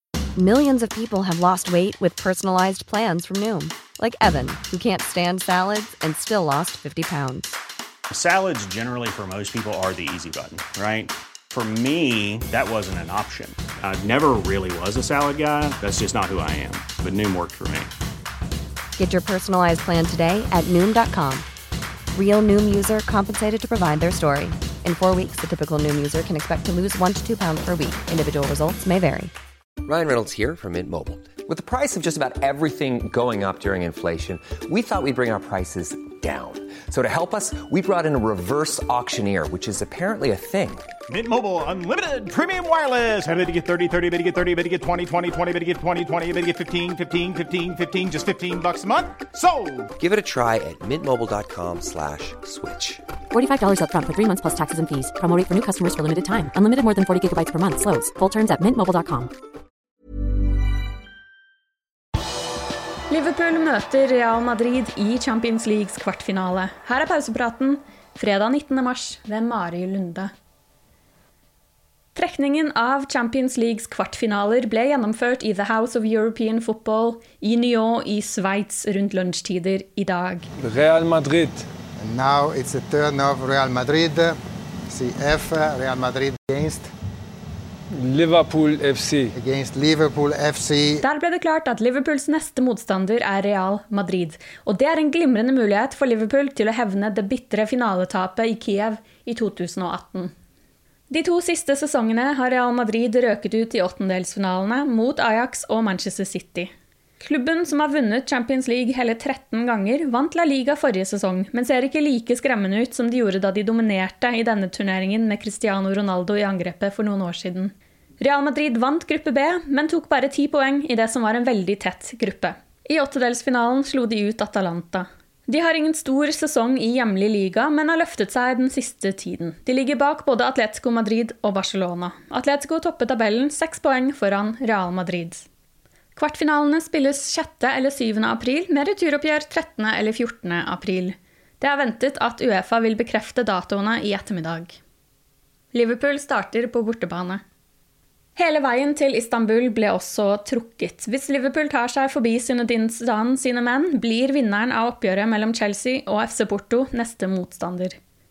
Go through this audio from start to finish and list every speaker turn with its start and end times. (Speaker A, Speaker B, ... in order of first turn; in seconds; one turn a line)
Speaker A: 0.4-7.5
Speaker B: 8.1-17.9
Speaker A: 19.0-21.4
Speaker A: 22.1-29.3
Speaker C: 29.8-40.9
Speaker D: 41.1-49.9
Speaker C: 50.0-53.0
Speaker E: 53.3-59.3
Speaker F: 63.1-70.3
Speaker F: 72.1-80.5
Speaker G: 80.6-81.6
Speaker H: 82.0-84.4
Speaker H: 84.9-86.9
Speaker G: 88.0-89.3
Speaker H: 89.3-91.0
Speaker F: 91.0-100.3
Speaker F: 101.1-135.4
Speaker F: 136.2-144.8
Speaker F: 145.7-147.4
Speaker F: 148.3-158.0